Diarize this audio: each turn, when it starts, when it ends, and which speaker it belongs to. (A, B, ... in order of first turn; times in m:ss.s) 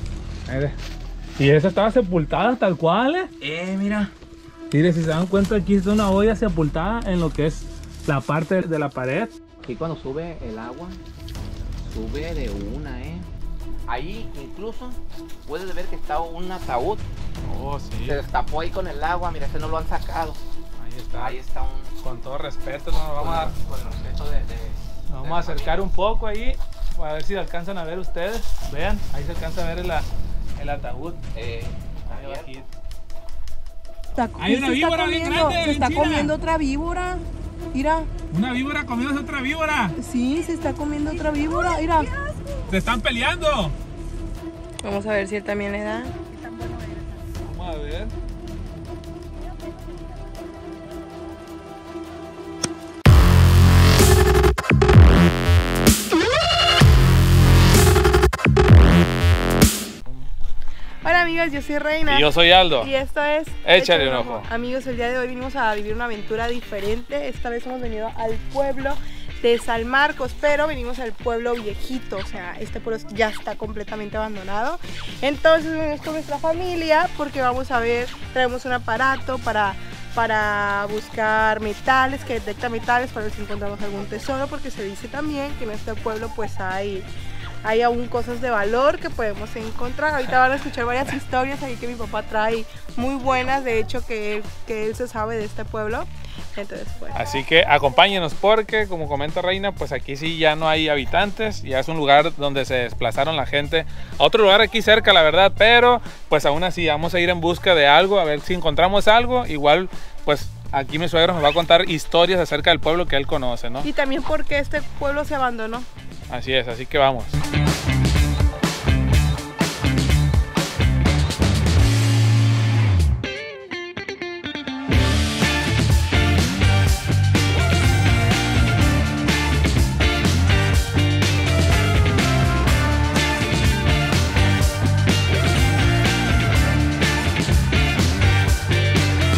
0:00.5-0:00.8 A
0:01.4-0:03.3 A
0:03.4-0:04.1 B
0:04.7-0:09.3 A
0:09.6-0:11.0 B
0:11.8-0:13.3 B
0:13.9-0:17.0 B
0:17.4-0:18.2 A
0:18.0-0:20.4 B
0:20.8-0:21.4 A
0:21.2-0:21.9 B
0:22.0-0:23.5 A
0:23.2-0:25.8 B
0:25.1-0:30.0 A
0:30.6-0:31.2 A
0:31.3-0:32.5 B
0:32.1-0:32.7 A
0:34.1-0:38.1 C
0:34.4-0:36.3 A
0:38.3-0:39.9 A
0:40.0-0:42.2 C
0:42.6-0:43.7 A
0:44.8-0:47.2 C
0:47.4-0:48.1 A
1:01.0-1:27.1 C
1:02.1-1:02.9 A
1:03.6-1:04.5 A
1:27.6-1:37.3 C
1:37.1-1:53.9 A
1:53.8-1:55.9 C
1:56.3-1:57.4 A